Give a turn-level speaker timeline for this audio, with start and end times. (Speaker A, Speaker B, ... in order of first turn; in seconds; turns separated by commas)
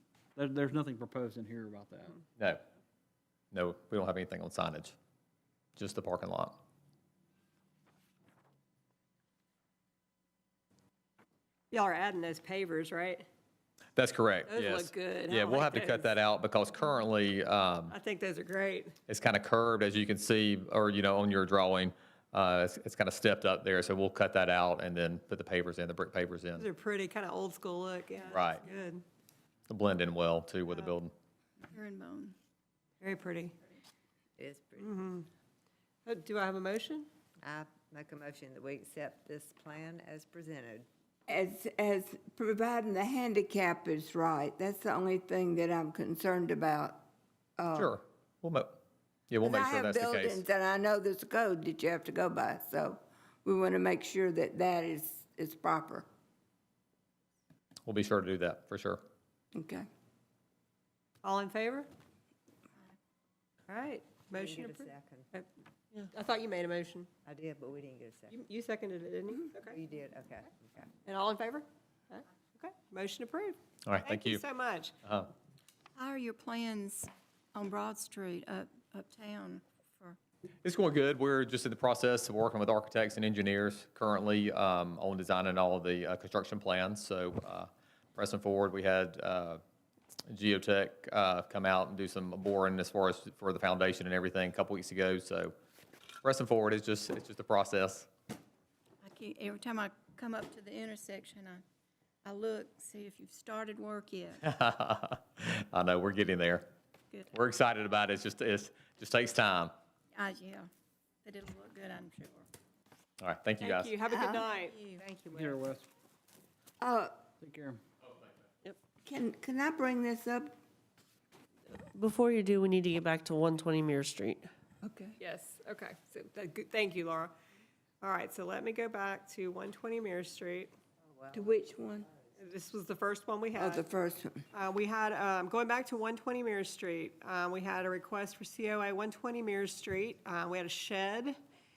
Speaker A: 0.3-2.2, Speaker B: 3.5-5.0, Speaker B: 5.8-6.6, Speaker C: 11.7-13.2, Speaker B: 14.0-17.9, Speaker C: 14.5-16.2, Speaker C: 17.9-19.0, Speaker B: 19.1-26.7, Speaker C: 26.6-29.0, Speaker B: 28.3-28.6, Speaker B: 29.7-31.1, Speaker D: 31.6-32.4, Speaker C: 33.0-33.6, Speaker E: 34.4-34.9, Speaker C: 34.8-35.3, Speaker C: 36.1-37.1, Speaker E: 37.4-40.9, Speaker F: 41.3-47.0, Speaker F: 47.6-48.0, Speaker B: 47.8-48.8, Speaker B: 49.3-50.4, Speaker F: 49.4-56.1, Speaker B: 57.9-59.0, Speaker F: 59.5-59.9, Speaker C: 61.2-61.9, Speaker E: 63.7-65.3, Speaker C: 64.3-65.5, Speaker C: 66.1-67.1, Speaker E: 67.2-68.3, Speaker C: 68.3-69.8, Speaker E: 69.7-70.9, Speaker C: 71.0-75.0, Speaker B: 73.9-74.4, Speaker D: 76.0-80.2, Speaker B: 80.6-89.6, Speaker B: 90.3-95.5, Speaker B: 96.2-98.1, Speaker D: 99.0-101.6, Speaker D: 102.2-104.5, Speaker B: 104.4-106.7, Speaker B: 107.3-109.7, Speaker D: 110.1-110.7, Speaker D: 111.2-112.5, Speaker B: 113.2-114.0, Speaker C: 113.6-114.8, Speaker F: 114.1-114.5, Speaker D: 114.5-115.0, Speaker E: 115.0-115.7, Speaker A: 115.3-115.9, Speaker F: 116.8-117.2, Speaker A: 117.4-117.8, Speaker F: 119.0-120.5, Speaker G: 121.9-124.5, Speaker F: 124.8-125.2, Speaker C: 125.2-127.3, Speaker C: 128.0-130.7, Speaker E: 131.0-131.5, Speaker F: 131.3-132.1, Speaker C: 132.4-133.8, Speaker F: 133.6-134.4, Speaker C: 134.5-141.4